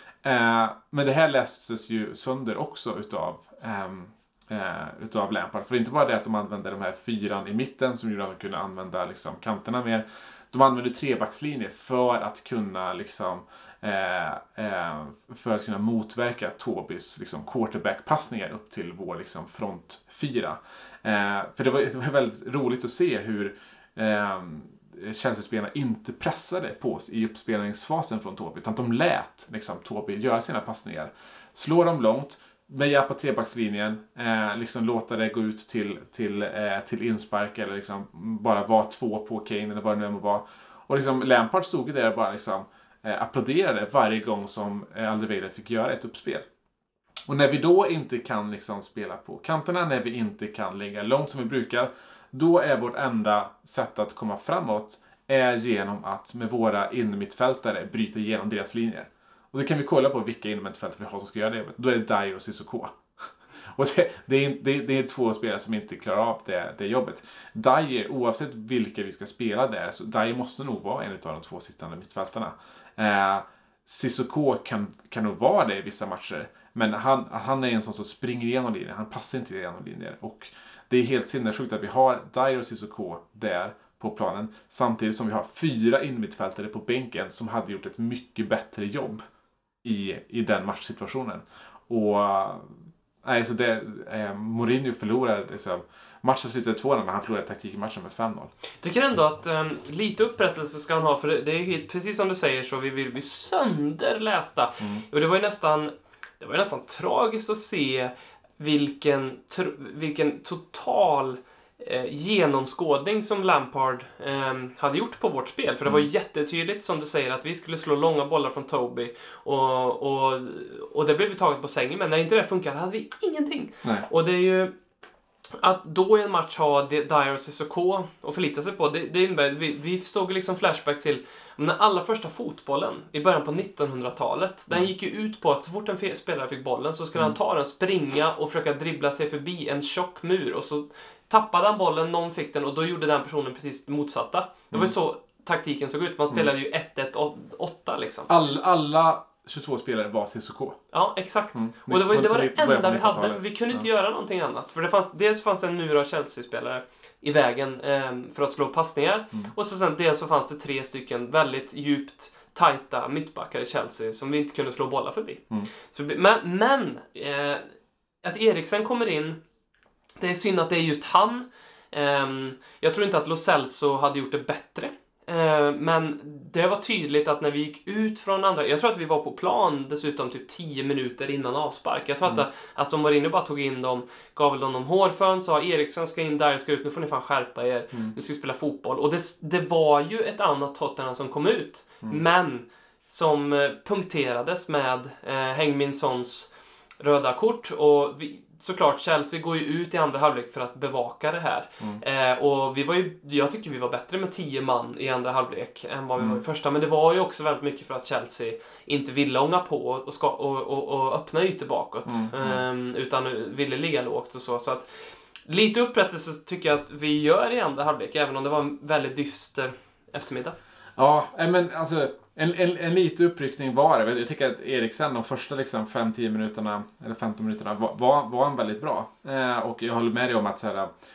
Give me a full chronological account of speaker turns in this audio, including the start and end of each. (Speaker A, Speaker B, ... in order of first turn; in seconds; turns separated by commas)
Speaker A: 0.2-46.5, Speaker A: 47.3-89.2, Speaker A: 89.8-98.5, Speaker B: 98.8-124.7, Speaker A: 104.8-105.0, Speaker A: 123.8-124.1, Speaker B: 125.6-148.3, Speaker A: 148.3-150.8, Speaker B: 150.9-167.7, Speaker A: 151.5-153.9, Speaker B: 168.2-169.4, Speaker B: 170.2-214.9, Speaker A: 206.2-206.4, Speaker A: 212.1-212.6, Speaker B: 215.5-220.6, Speaker A: 221.0-230.9